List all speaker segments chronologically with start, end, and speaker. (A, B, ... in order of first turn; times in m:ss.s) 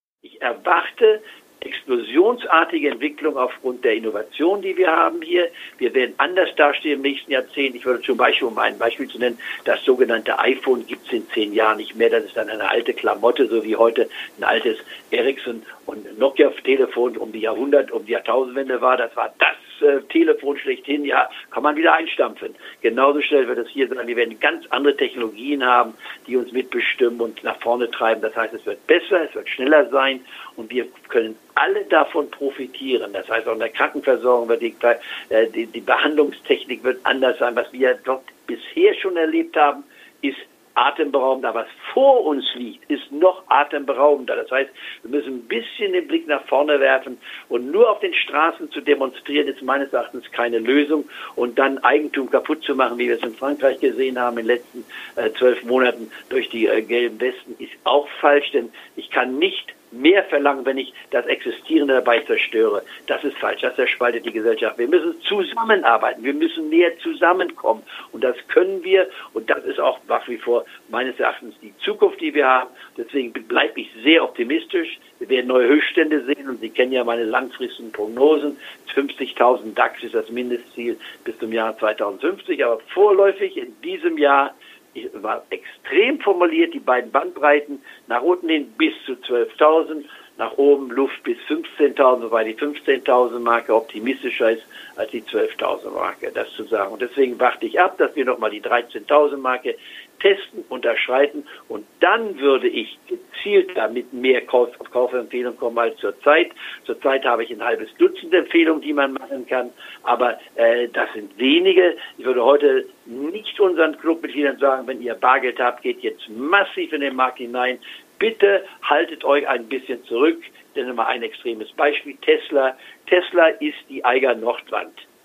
0:00.2-2:05.0 A